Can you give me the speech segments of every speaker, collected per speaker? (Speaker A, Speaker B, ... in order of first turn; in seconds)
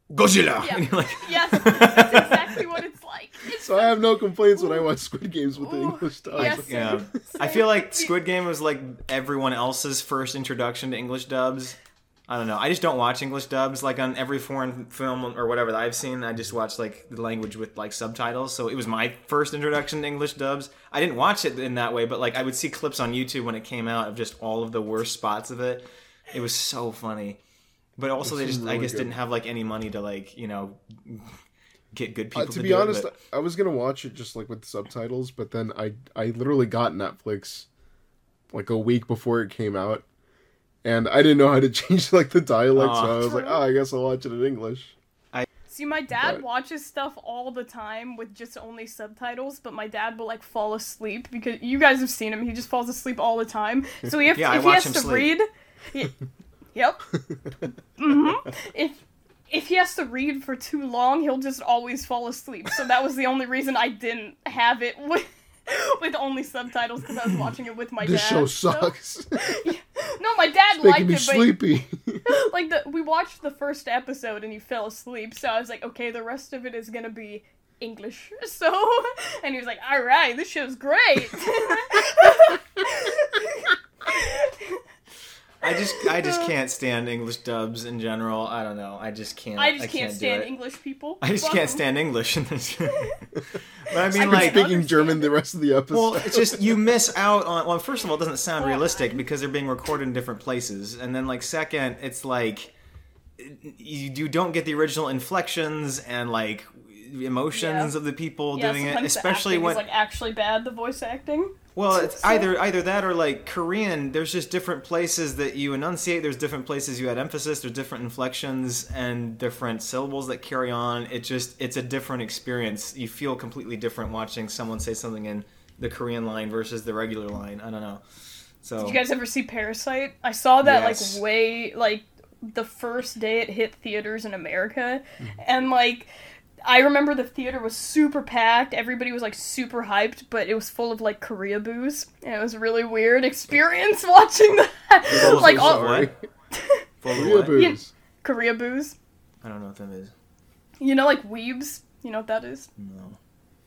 Speaker A: 0.1-2.6, 6.4-11.8, 12.3-27.4, 28.0-31.3, 31.9-33.1, 42.8-43.3, 54.4-55.3, 85.6-90.5, 91.2-93.2, 93.9-94.6, 95.9-102.7, 103.4-109.8, 111.8-128.0, 128.6-129.0, 130.6-131.2, 145.1-146.1, 147.0-147.6, 149.4-150.1, 152.8-153.2
Speaker B: 0.6-4.9, 5.6-8.1, 43.2-43.6, 45.7-56.1, 56.8-57.0, 58.0-59.0, 59.5-71.6, 72.3-84.8, 85.7-86.5, 89.6-91.8, 92.9-93.2, 94.1-95.3, 98.6-99.2, 107.5-107.9, 108.5-112.5, 128.8-136.1, 136.7-145.9, 146.5-146.8, 147.5-148.9, 150.8-152.7
Speaker C: 3.6-7.0, 28.2-29.1, 32.4-37.7, 38.5-40.0, 40.8-44.9, 68.0-69.6, 70.8-72.3, 94.1-96.9, 145.1-146.1, 147.1-147.9